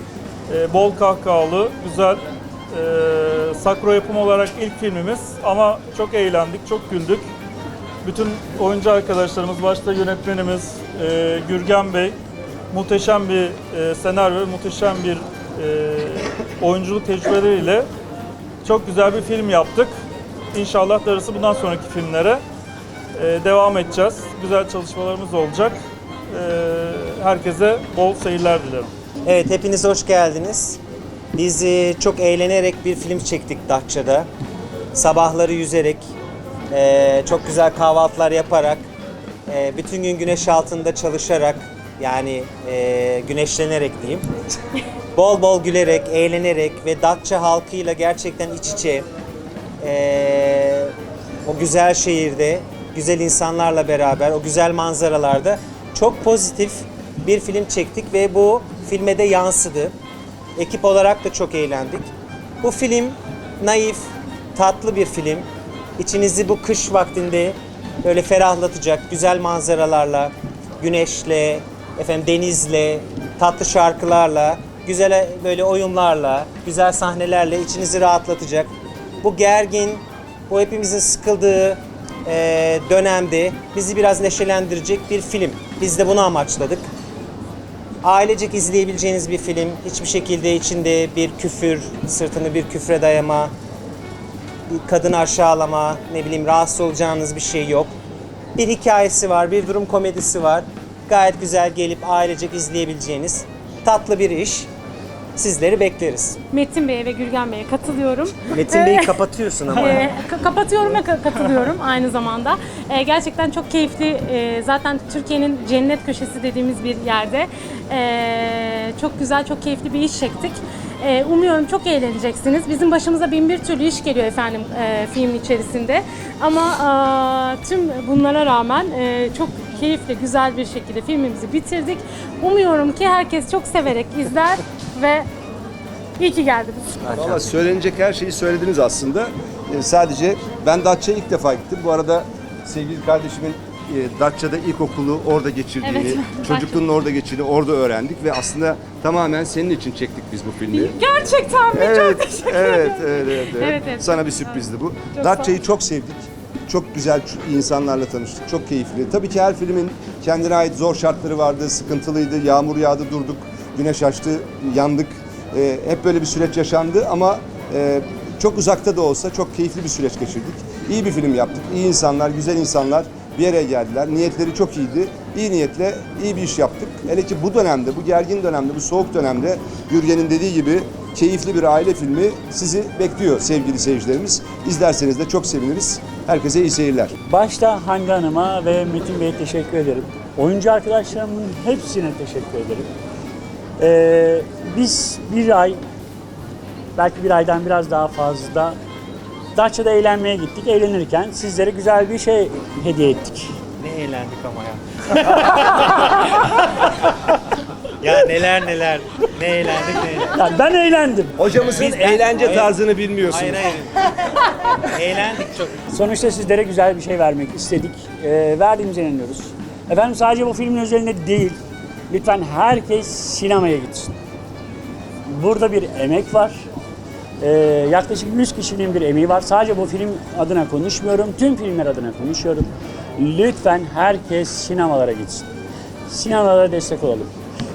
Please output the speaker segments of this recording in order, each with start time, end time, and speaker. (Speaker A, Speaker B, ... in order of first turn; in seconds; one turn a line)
Speaker A: 0.5-2.2
Speaker A: 2.7-7.2
Speaker A: 8.0-12.1
Speaker A: 12.7-17.8
Speaker A: 18.6-19.9
Speaker A: 20.5-22.4
Speaker A: 23.1-25.8
Speaker A: 26.3-28.9
Speaker B: 29.2-30.8
Speaker B: 31.4-34.3
Speaker B: 34.9-36.1
Speaker B: 36.7-38.9
Speaker B: 39.5-44.2
Speaker B: 45.1-49.1
Speaker B: 49.8-50.9
Speaker B: 51.5-59.9
Speaker B: 60.6-62.1
Speaker B: 62.6-65.5
Speaker B: 66.0-78.7
Speaker B: 79.2-86.9
Speaker B: 88.0-93.5
Speaker B: 94.7-97.9
Speaker B: 98.6-104.7
Speaker B: 105.4-106.4
Speaker C: 106.5-135.3
Speaker B: 108.5-110.1
Speaker C: 136.2-137.2
Speaker D: 137.1-151.0
Speaker C: 145.8-146.8
Speaker C: 150.7-155.6
Speaker D: 151.7-187.1
Speaker E: 187.3-192.9
Speaker E: 193.8-195.8
Speaker E: 196.9-198.8
Speaker E: 199.6-203.5
Speaker B: 203.8-206.0
Speaker B: 208.0-210.3
Speaker E: 210.3-211.3
Speaker D: 211.4-213.6
Speaker B: 211.6-214.0
Speaker B: 214.9-215.7
Speaker E: 215.9-221.6
Speaker E: 222.1-224.1
Speaker E: 225.3-226.7
Speaker E: 227.4-235.5
Speaker E: 236.1-237.3